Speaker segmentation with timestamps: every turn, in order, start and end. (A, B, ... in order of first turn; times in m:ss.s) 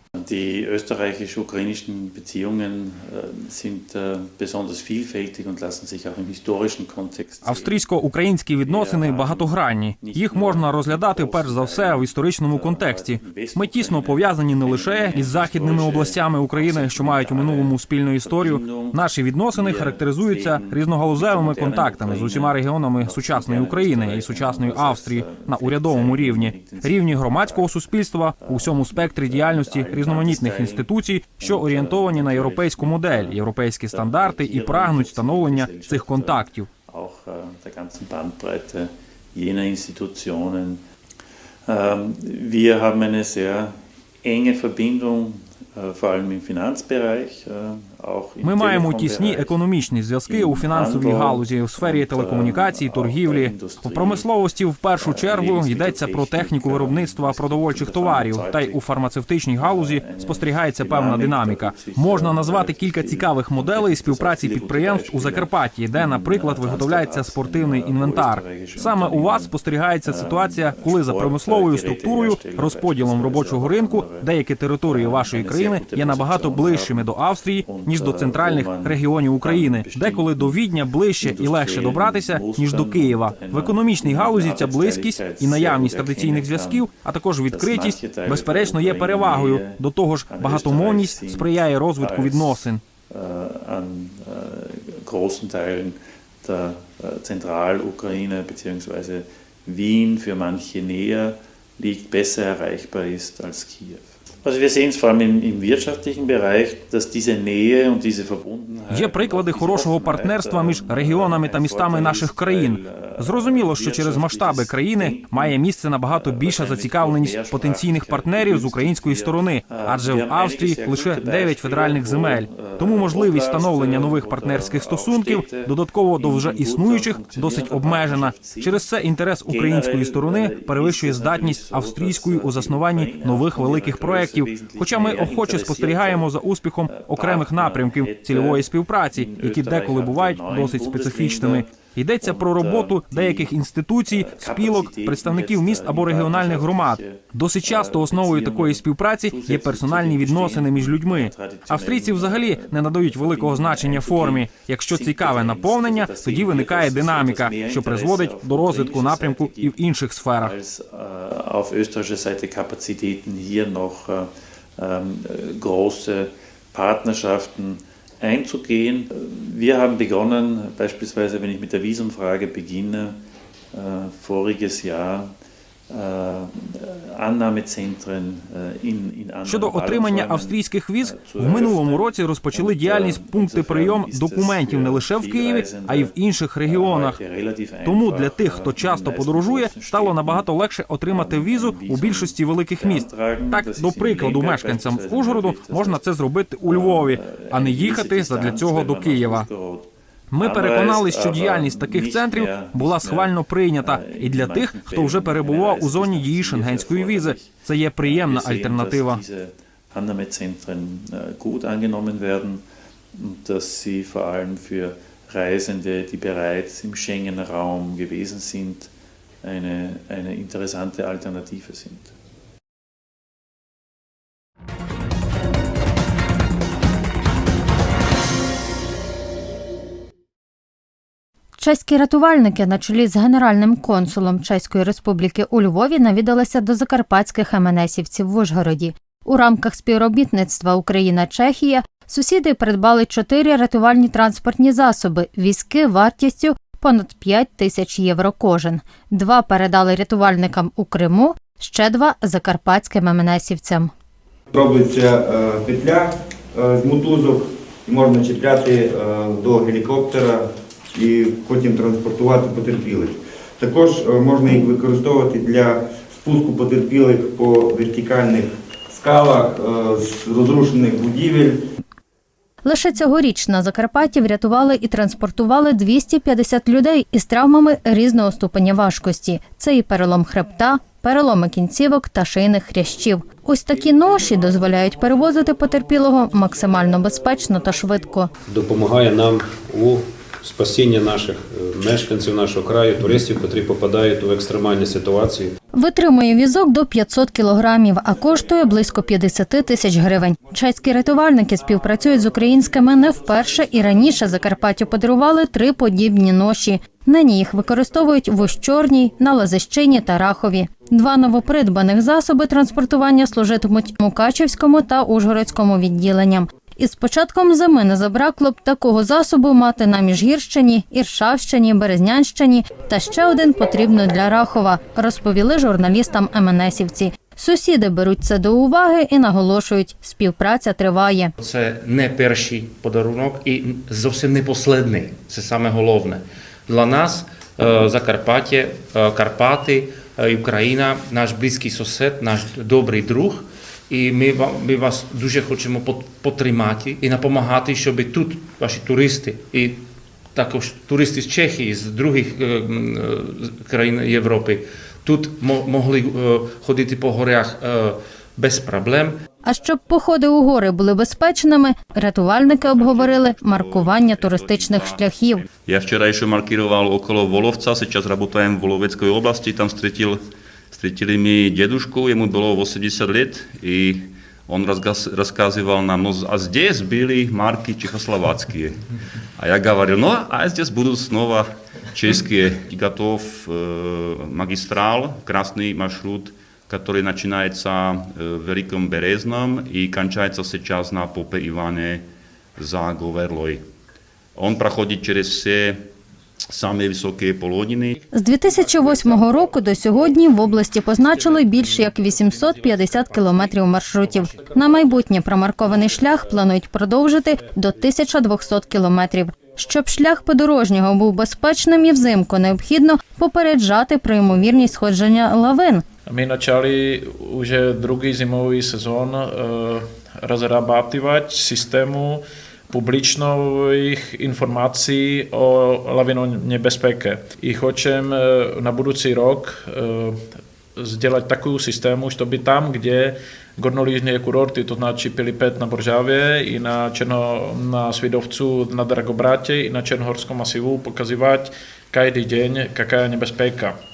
0:00.2-0:07.8 A
0:07.4-0:36.7 B
0:08.6-0:19.0 A
0:19.5-0:27.8 A
0:28.4-0:40.8 A
0:41.7-0:49.6 A
0:48.4-1:32.8 B
0:50.3-0:54.3 A
0:55.0-0:58.8 A
0:59.6-1:09.5 A
1:10.0-1:14.3 A
1:14.9-1:17.1 A
1:17.6-1:20.6 A
1:21.2-1:26.9 A
1:27.5-1:55.6 A
1:48.9-2:40.5 B
1:56.1-2:08.8 A
2:09.5-2:16.3 A
2:16.9-2:39.8 A
2:40.4-2:53.2 A
2:53.7-2:55.3 A
2:55.9-3:06.1 A
2:59.4-3:07.2 B
3:06.6-3:10.5 A
3:07.8-3:19.5 B
3:11.1-3:16.0 A
3:16.6-3:19.8 A
3:20.3-3:29.2 B
3:20.4-3:32.6 A
3:33.1-3:38.9 A
3:39.4-3:42.1 A
3:51.6-4:13.9 C
4:14.5-4:31.6 D
4:32.6-4:48.3 C
4:48.5-4:55.5 E
4:55.7-5:31.3 C
5:31.4-5:49.8 F
5:50.3-5:59.2 F
5:59.4-6:05.4 C
6:02.4-6:18.8 G
6:19.4-6:32.0 G
6:32.6-6:33.6 G
6:34.4-6:35.9 G
6:36.5-6:38.0 G
6:38.1-6:55.8 C
6:56.1-7:23.8 H